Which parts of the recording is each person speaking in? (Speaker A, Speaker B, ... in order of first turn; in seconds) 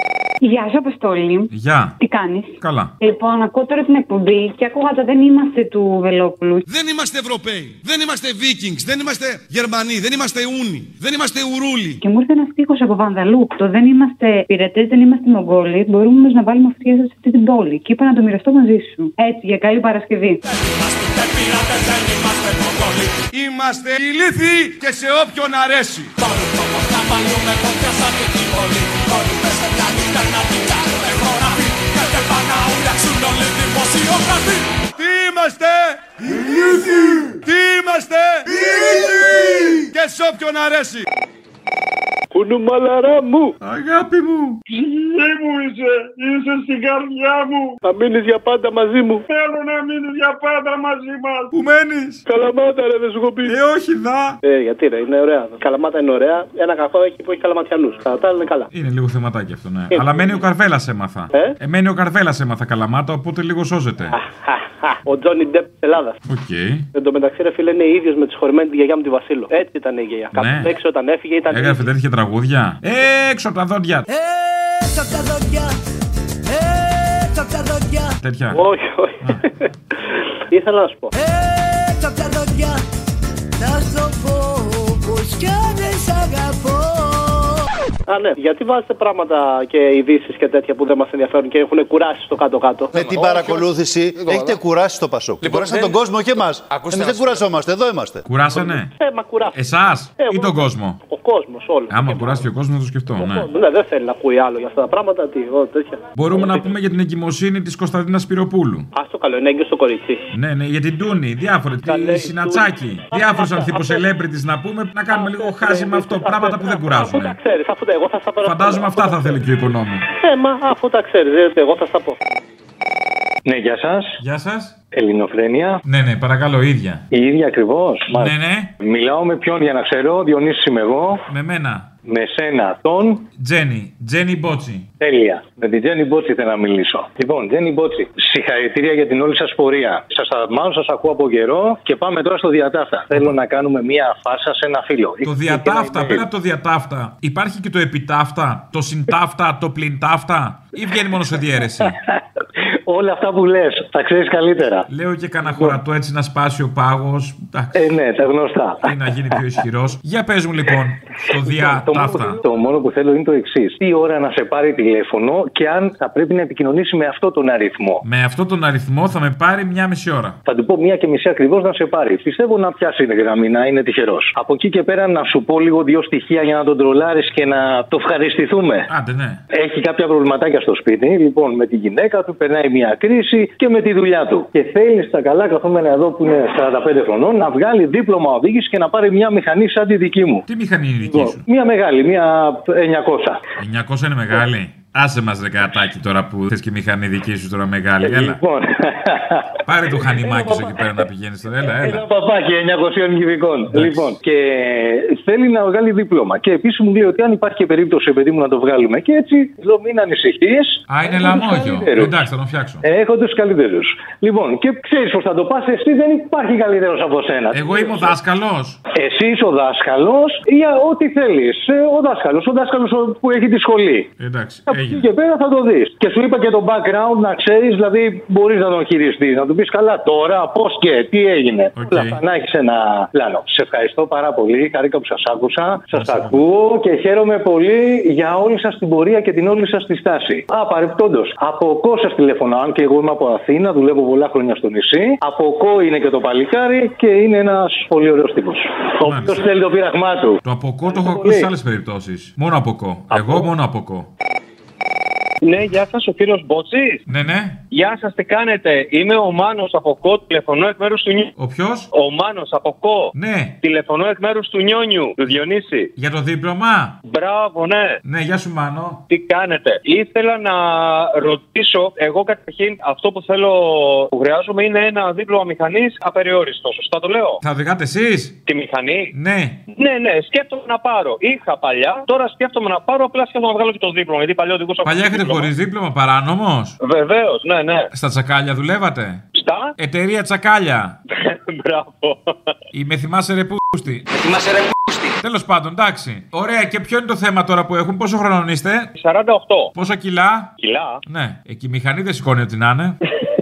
Speaker A: 0.4-6.6, 12.0-20.4
Speaker B: 1.5-1.9, 2.6-2.9, 43.6-44.6, 51.5-52.2, 53.4-54.4, 58.7-64.2, 66.2-66.9, 70.3-70.8, 71.5-74.0, 78.2-78.6, 98.2-98.9, 99.5-101.0, 101.9-103.5, 106.1-108.9, 110.3-117.4, 118.4-120.0, 124.2-124.7, 125.8-127.0, 128.1-128.7, 131.3-131.9, 133.4-134.8, 145.2-151.9, 154.9-157.9, 158.8-162.4, 168.0-170.4, 178.9-179.4, 190.5-191.4, 193.6-198.4, 199.7-202.0, 203.7-204.1, 210.9-212.8, 217.5-218.8, 224.2-225.0, 231.8-232.2, 235.9-236.4, 249.0-249.5, 250.4-254.1, 257.1-257.6, 261.4-261.9, 263.1-263.5, 265.9-267.0, 268.0-269.0, 277.4-278.4, 279.1-279.6, 284.8-286.7, 287.9-289.2, 289.8-290.9, 292.7-294.0, 295.2-298.9, 299.7-300.5, 301.1-303.0
Speaker C: 6.7-12.0, 20.8-26.3, 26.9-41.0
Speaker D: 42.3-43.5, 47.8-49.2, 52.3-53.5, 54.4-58.7, 59.9-60.4, 64.1-66.2, 66.9-71.9, 78.5-79.5, 80.5-81.1, 88.1-93.1, 98.5-99.6, 100.2-102.4, 103.2-106.7, 108.9-110.3, 111.8-114.0, 115.1-119.4, 120.1-122.2
Speaker E: 44.7-47.7, 49.3-51.5
Speaker F: 74.1-75.7, 76.5-78.1, 81.1-82.8, 83.6-87.6
Speaker G: 92.9-98.2
Speaker H: 123.4-124.2, 124.9-125.8, 127.1-131.2, 132.0-133.2, 135.0-146.2, 152.8-154.9, 155.4-155.8, 157.7-159.4, 161.4-168.0, 170.4-178.9, 179.5-190.4, 191.0-193.4, 198.0-199.6, 200.1-201.0, 201.7-212.2, 212.8-218.2, 218.9-224.1, 224.7-251.5
Speaker I: 255.4-257.0, 257.7-261.3, 261.9-265.9, 267.1-268.0, 269.1-277.4, 278.4-279.1, 279.7-285.5, 286.8-287.9, 289.3-289.7, 291.2-292.3, 299.0-299.7, 300.6-301.0